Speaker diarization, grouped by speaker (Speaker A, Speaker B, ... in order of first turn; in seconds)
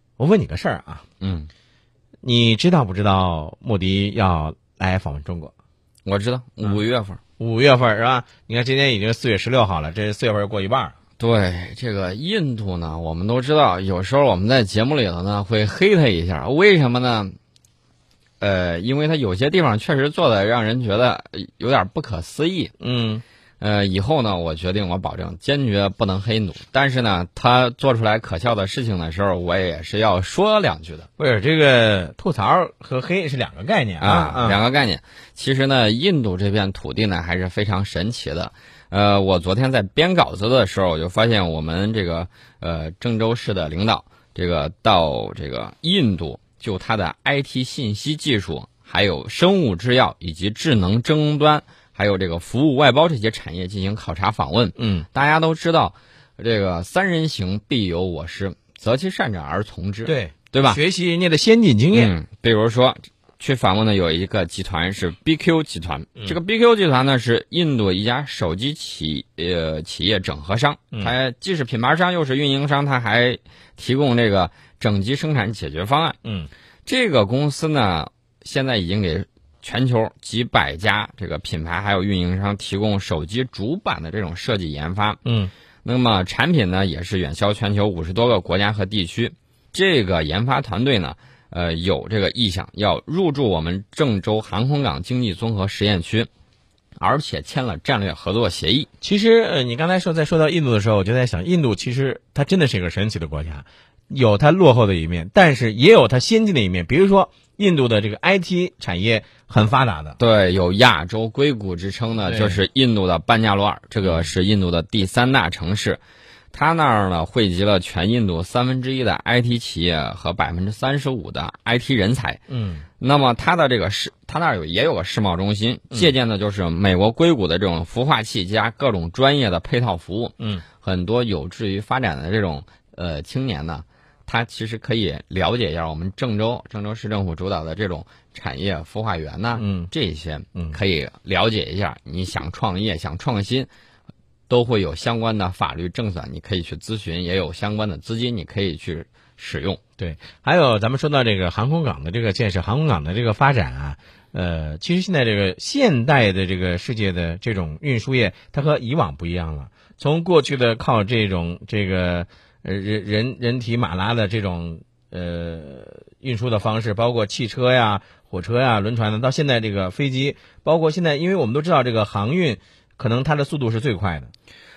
Speaker A: 0.2-1.0, 2.2-5.5, 7.4-10.9, 22.8-23.2, 31.2-34.6, 54.8-55.1, 60.0-62.1, 85.2-85.5, 99.0-110.2, 112.3-112.6, 114.0-114.3, 122.5-122.9, 130.4-130.7, 139.6-139.9, 150.0-174.3
Speaker B: 1.2-1.5, 6.0-7.2, 11.2-17.4, 18.4-22.7, 23.6-31.1, 34.0-60.8, 61.9-76.2, 76.9-85.2, 85.8-96.3, 97.0-98.9, 110.2-116.0, 116.5-122.4, 123.0-143.7, 144.5-149.8